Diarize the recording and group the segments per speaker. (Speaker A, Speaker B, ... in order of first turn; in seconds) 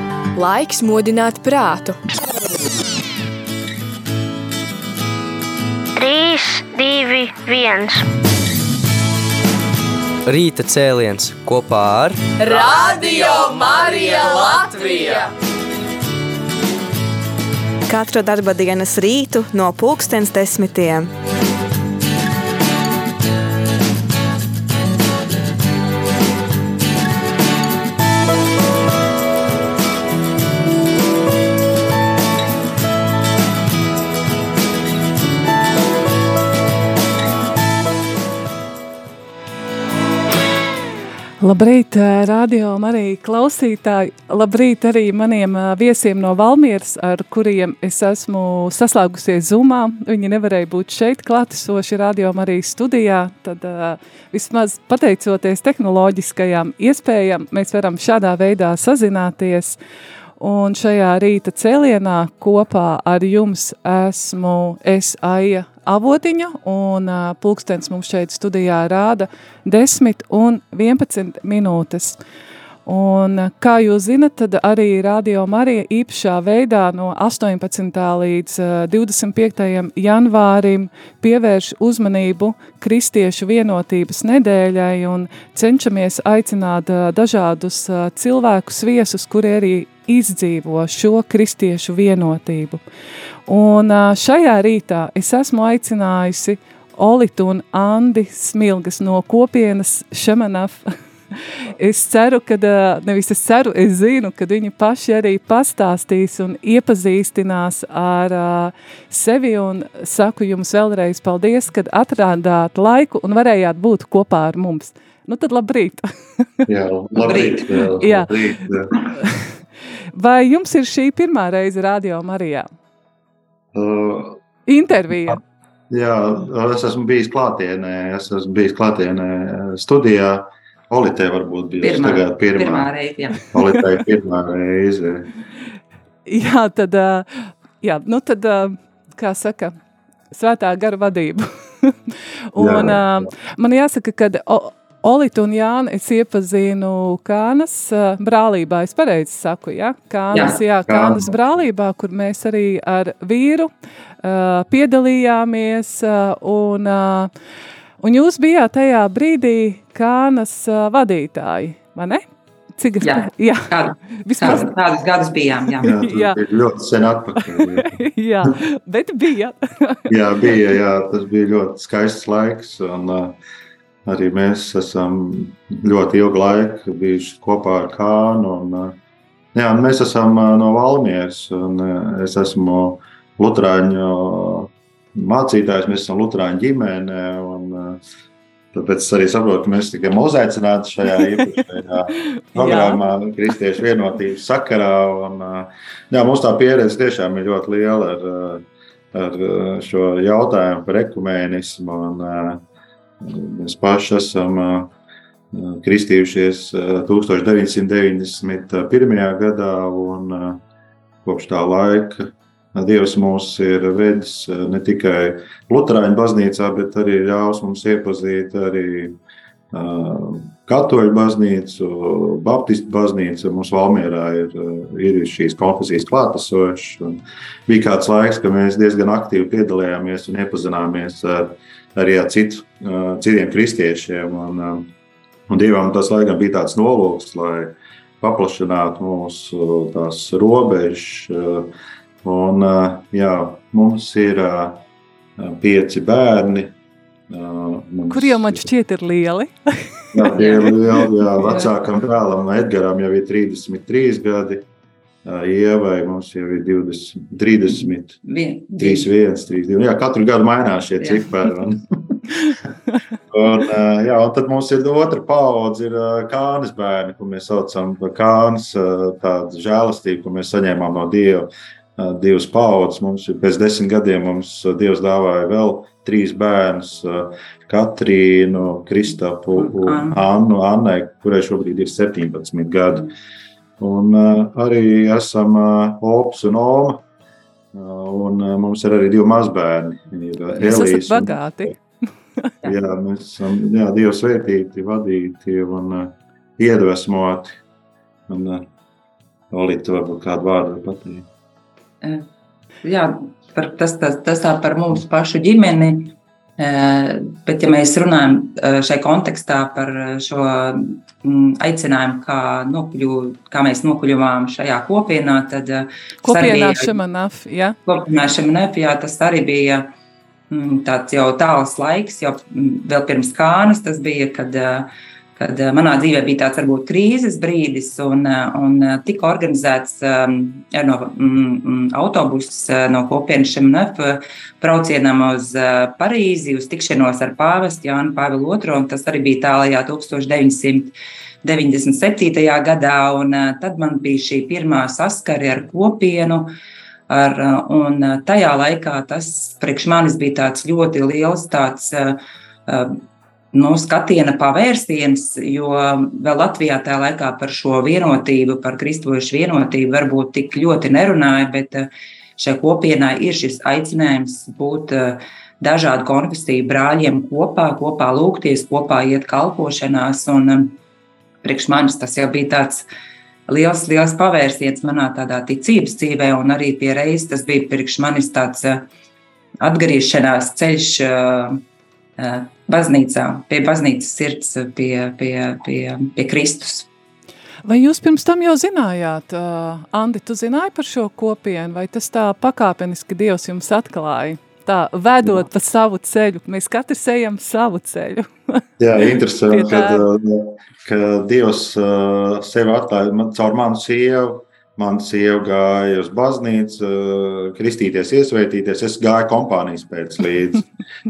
Speaker A: 0.3-2.0, 12.4-15.3
Speaker B: 6.0-8.0
Speaker C: 10.3-12.2
Speaker D: 17.9-21.1
Speaker E: 41.4-59.8, 60.4-72.2, 72.9-92.8, 93.5-100.9, 101.8-116.0, 118.0-118.3, 120.2-122.7, 124.7-125.4, 136.3-137.3, 137.8-139.7, 140.3-141.9, 142.5-153.7, 154.2-157.3, 158.0-162.2, 162.8-164.7, 165.8-166.4, 167.4-170.1, 192.5-193.0, 248.1-249.9, 290.6-291.8, 316.2-317.8, 387.6-398.6, 399.5-400.0
Speaker F: 116.7-118.9, 123.7-124.4, 125.9-132.9, 133.5-135.3, 142.6-143.2, 150.9-151.6, 165.8-168.0, 170.1-173.4, 174.1-178.9, 179.5-188.0, 188.7-202.6, 203.2-204.9, 205.5-210.6, 211.2-219.2, 219.7-234.9, 235.5-241.7, 242.2-244.8, 245.4-246.8, 247.3-248.7, 250.1-254.7, 255.2-258.2, 258.8-262.1, 263.3-283.1, 283.8-287.0, 287.7-291.7, 292.6-297.6, 298.3-298.7, 299.5-301.3, 398.8-410.7
Speaker G: 117.2-117.7, 131.8-133.5, 150.3-150.6, 163.0-165.9, 250.3-251.7, 258.3-259.1, 261.0-261.3, 279.6-280.2, 302.0-302.3, 302.8-316.9, 317.9-319.9, 320.5-340.9, 341.4-346.5, 347.1-353.0, 353.5-370.8, 371.4-372.9, 373.5-378.9, 379.6-381.6, 382.2-386.9